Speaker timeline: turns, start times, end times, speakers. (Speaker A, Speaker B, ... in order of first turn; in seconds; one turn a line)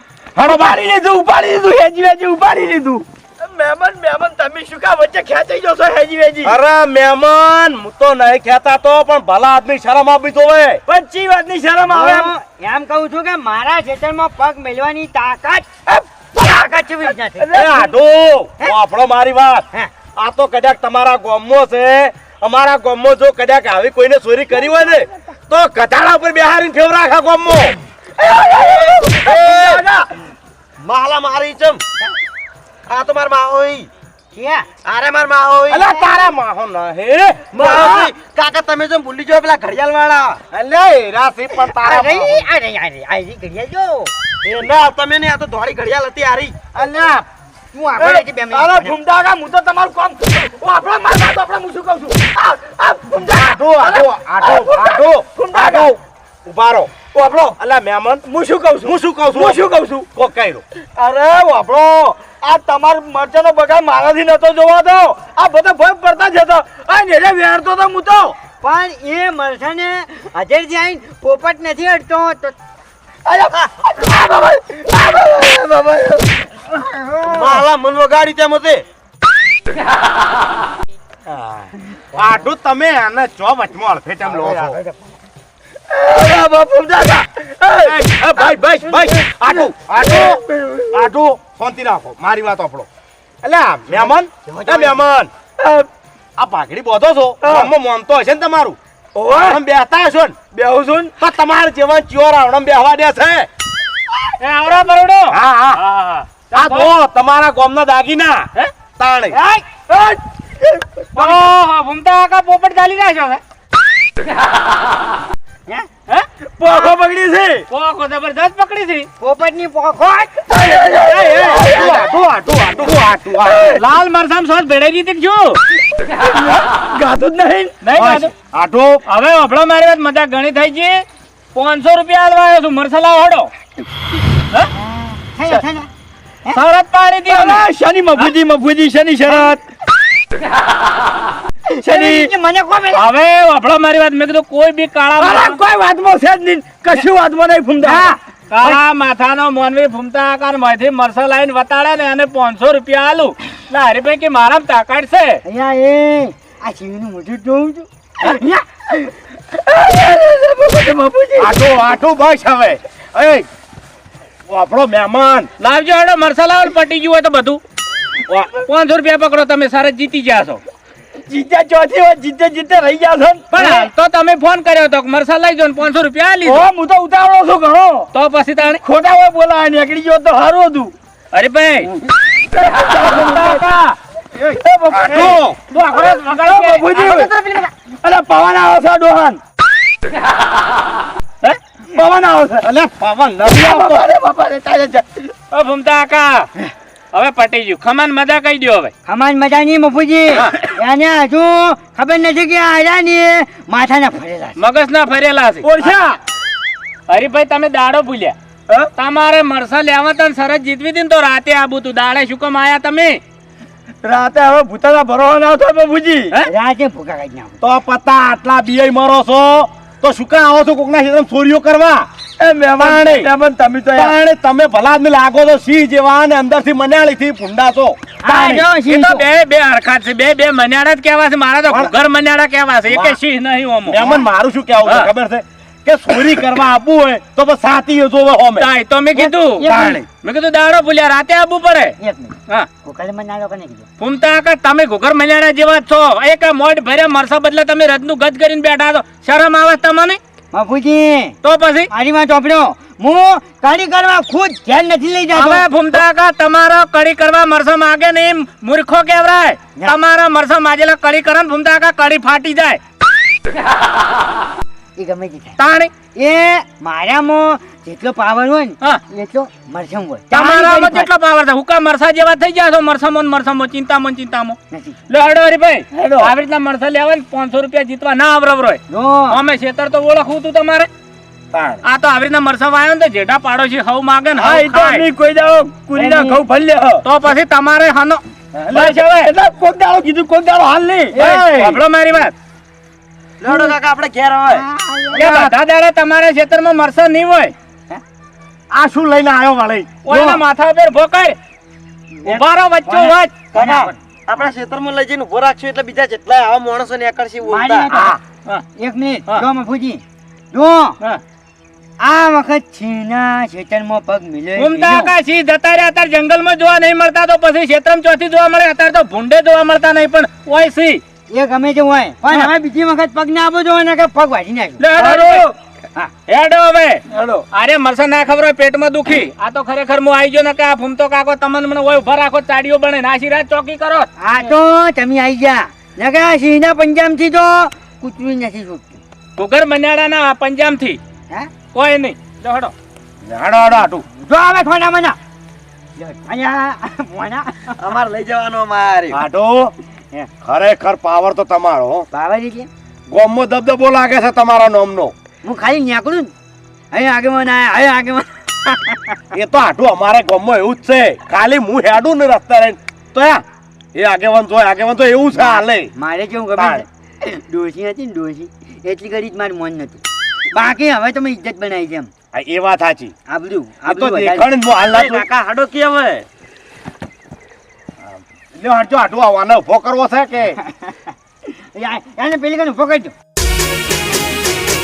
Speaker A: 0.4-0.7
Speaker B: 0.4-6.6
Speaker A: 6.4-10.8
Speaker B: 10.9-12.3
Speaker C: 11.9-15.8
Speaker C: 16.3-17.6
Speaker B: 17.4-17.9
Speaker A: 17.5-19.6
Speaker A: 20.2-27.8
Speaker B: 28.4-29.3
Speaker A: 28.5-29.9
Speaker C: 29.5-29.9
Speaker D: 30.8-31.8
Speaker D: 32.9-33.9
Speaker C: 34.3-34.7
Speaker D: 34.9-35.9
Speaker A: 35.7-37.8
Speaker D: 37.5-40.4
Speaker C: 37.6-38.0
Speaker A: 40.5-42.5
Speaker C: 41.8-44.1
Speaker D: 44.4-46.7
Speaker C: 47.7-49.0
Speaker B: 48.0-55.9
Speaker A: 53.2-57.0
Speaker B: 57.1-57.6
Speaker A: 57.6-58.2
Speaker B: 58.2-60.1
Speaker A: 58.8-59.6
Speaker A: 60.1-60.6
Speaker B: 61.0-68.4
Speaker C: 68.6-72.6
Speaker B: 73.3-76.2
Speaker C: 77.0-77.6
Speaker D: 77.2-78.8
Speaker A: 82.1-84.8
Speaker C: 84.2-85.0
Speaker B: 85.9-88.0
Speaker A: 87.8-92.9
Speaker B: 90.0-91.1
Speaker A: 93.4-95.3
Speaker C: 94.5-95.0
Speaker B: 95.6-95.9
Speaker A: 96.4-98.8
Speaker B: 97.4-97.7
Speaker B: 99.2-99.6
Speaker A: 99.3-100.4
Speaker B: 100.5-101.1
Speaker A: 101.2-103.5
Speaker E: 104.4-106.9
Speaker A: 105.3-105.8
Speaker A: 106.5-108.5
Speaker A: 109.0-109.4
Speaker C: 109.3-109.7
Speaker B: 109.9-110.2
Speaker E: 111.2-113.4
Speaker B: 116.6-117.7
Speaker E: 117.7-119.1
Speaker C: 119.2-121.6
Speaker B: 120.5-122.0
Speaker A: 121.0-123.8
Speaker E: 123.6-125.6
Speaker B: 126.2-127.8
Speaker E: 127.8-128.3
Speaker A: 128.0-129.0
Speaker E: 129.1-133.5
Speaker C: 134.7-135.9
Speaker E: 136.5-137.6
Speaker B: 137.3-139.6
Speaker C: 141.8-143.1
Speaker B: 141.8-142.3
Speaker E: 142.9-145.6
Speaker B: 145.2-148.8
Speaker C: 147.8-148.2
Speaker E: 148.5-155.4
Speaker C: 155.4-159.1
Speaker C: 159.7-161.4
Speaker A: 161.4-163.5
Speaker A: 164.5-165.5
Speaker E: 165.6-167.6
Speaker E: 168.3-170.6
Speaker B: 171.3-173.9
Speaker E: 173.5-176.7
Speaker B: 176.4-178.1
Speaker E: 178.1-178.8
Speaker B: 178.8-180.9
Speaker E: 181.3-181.9
Speaker B: 182.5-183.7
Speaker E: 182.9-184.0
Speaker B: 184.4-187.3
Speaker A: 184.9-185.6
Speaker E: 185.7-187.7
Speaker B: 188.0-189.4
Speaker B: 191.4-192.7
Speaker A: 192.6-194.1
Speaker B: 193.5-195.3
Speaker E: 195.5-196.5
Speaker E: 197.1-198.9
Speaker C: 199.1-204.6
Speaker E: 204.6-205.8
Speaker B: 205.6-206.2
Speaker E: 207.1-208.4
Speaker E: 209.0-213.2
Speaker B: 214.0-216.3
Speaker C: 216.5-217.6
Speaker A: 217.6-222.1
Speaker B: 222.4-224.2
Speaker A: 222.8-223.3
Speaker A: 223.9-228.0
Speaker C: 228.2-229.3
Speaker E: 228.3-234.2
Speaker A: 233.9-238.7
Speaker E: 234.8-235.1
Speaker E: 238.6-242.0
Speaker C: 239.2-240.0
Speaker A: 239.6-240.0
Speaker C: 242.0-243.9
Speaker E: 244.0-250.2
Speaker C: 250.5-251.4
Speaker E: 251.4-251.9
Speaker C: 251.9-255.7
Speaker E: 255.3-262.8
Speaker C: 265.0-265.6
Speaker E: 265.6-265.9
Speaker C: 266.2-271.1
Speaker E: 270.3-274.6
Speaker E: 275.1-280.9
Speaker B: 275.9-276.3
Speaker C: 278.9-279.4
Speaker E: 281.8-285.1
Speaker B: 284.4-287.1
Speaker C: 285.9-286.4
Speaker E: 287.1-288.2
Speaker B: 288.6-291.8
Speaker E: 288.7-289.3
Speaker C: 291.1-291.4
Speaker E: 291.2-292.3
Speaker D: 293.4-294.6
Speaker C: 294.5-295.2
Speaker E: 295.1-297.5
Speaker A: 295.2-295.4
Speaker A: 298.7-300.0
Speaker E: 300.1-301.4
Speaker E: 302.3-303.3
Speaker C: 303.5-304.0
Speaker D: 303.5-307.9
Speaker C: 307.5-308.2
Speaker A: 307.9-308.2
Speaker C: 308.8-310.0
Speaker C: 310.5-311.0
Speaker C: 312.0-315.1
Speaker E: 314.6-321.0
Speaker C: 321.3-324.8
Speaker E: 324.8-325.5
Speaker B: 325.0-325.5
Speaker E: 326.3-334.1
Speaker B: 327.1-327.4
Speaker C: 334.2-339.0
Speaker E: 339.4-341.0
Speaker E: 341.7-342.7
Speaker A: 343.3-344.0
Speaker C: 344.2-345.2
Speaker C: 346.0-347.7
Speaker D: 347.8-349.2
Speaker A: 349.1-349.7
Speaker A: 350.4-352.1
Speaker C: 352.1-352.7
Speaker A: 353.1-355.1
Speaker C: 355.4-356.3
Speaker C: 356.9-359.2
Speaker A: 359.3-363.4
Speaker A: 364.0-365.9
Speaker C: 365.4-372.1
Speaker A: 366.6-366.9
Speaker A: 372.3-373.1
Speaker C: 373.3-374.5
Speaker A: 373.9-375.3
Speaker D: 374.9-376.2
Speaker A: 378.6-380.6
Speaker C: 380.6-383.1